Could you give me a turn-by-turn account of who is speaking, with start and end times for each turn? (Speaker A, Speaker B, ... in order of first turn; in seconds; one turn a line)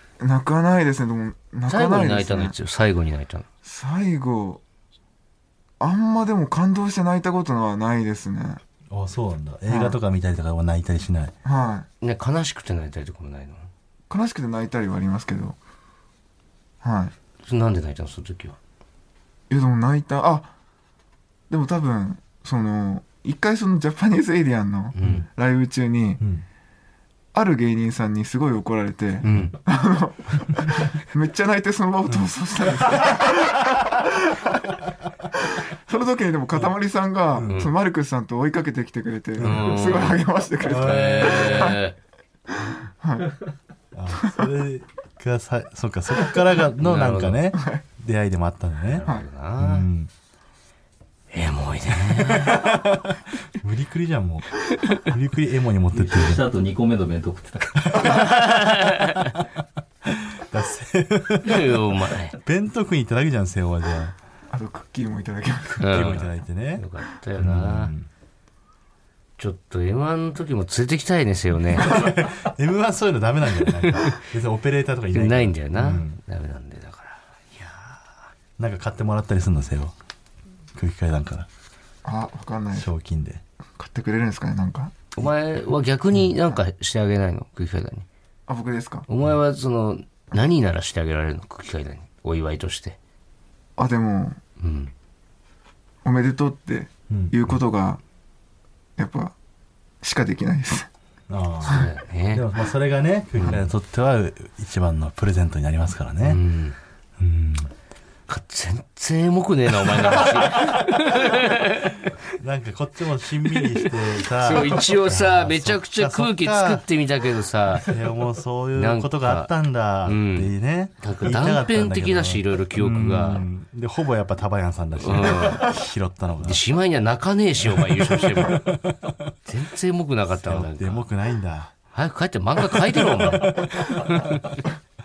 Speaker A: 0.2-2.5
Speaker B: 1.7-3.4
Speaker A: 3.6-4.6
Speaker A: 5.8-8.6
Speaker C: 8.9-11.3
Speaker A: 9.7-10.0
Speaker A: 11.4-11.9
Speaker B: 12.0-13.7
Speaker A: 14.1-15.6
Speaker A: 16.8-17.1
Speaker B: 17.4-18.6
Speaker A: 19.5-20.5
Speaker A: 21.5-26.2
Speaker B: 24.9-25.2
Speaker A: 27.3-34.5
Speaker B: 29.2-29.6
Speaker A: 35.7-41.8
Speaker C: 37.4-37.7
Speaker B: 37.5-37.7
Speaker C: 39.4-39.7
Speaker B: 39.4-42.0
Speaker C: 40.6-41.7
Speaker A: 42.5-43.3
Speaker C: 43.9-49.0
Speaker B: 46.8-47.4
Speaker A: 47.5-47.8
Speaker B: 48.9-49.9
Speaker C: 49.6-50.1
Speaker B: 51.3-52.7
Speaker C: 52.2-56.4
Speaker D: 55.9-58.2
Speaker B: 58.0-59.3
Speaker C: 60.0-61.7
Speaker B: 61.4-62.4
Speaker C: 62.4-64.1
Speaker A: 64.5-65.9
Speaker C: 65.8-66.8
Speaker B: 65.8-67.9
Speaker C: 67.4-68.1
Speaker B: 69.4-72.1
Speaker C: 71.8-76.2
Speaker B: 75.1-78.0
Speaker C: 78.6-79.9
Speaker C: 80.7-81.5
Speaker A: 82.0-82.9
Speaker C: 82.7-83.4
Speaker A: 83.8-84.9
Speaker B: 85.1-88.0
Speaker A: 88.5-89.0
Speaker B: 89.1-93.0
Speaker A: 93.8-94.4
Speaker B: 94.6-94.9
Speaker A: 96.0-98.0
Speaker C: 97.1-97.3
Speaker A: 99.0-99.3
Speaker A: 100.0-100.9
Speaker C: 101.3-106.4
Speaker B: 101.7-102.4
Speaker B: 103.4-103.6
Speaker B: 106.2-106.8
Speaker C: 107.2-107.7
Speaker B: 108.3-112.0
Speaker C: 109.9-110.7
Speaker C: 112.3-116.8
Speaker B: 113.5-117.9
Speaker C: 117.8-126.6
Speaker B: 118.8-119.5
Speaker B: 120.0-123.5
Speaker B: 125.0-125.7
Speaker B: 126.4-128.7
Speaker C: 127.6-129.3
Speaker B: 129.4-131.1
Speaker C: 130.4-131.7
Speaker B: 131.9-134.7
Speaker C: 132.7-134.1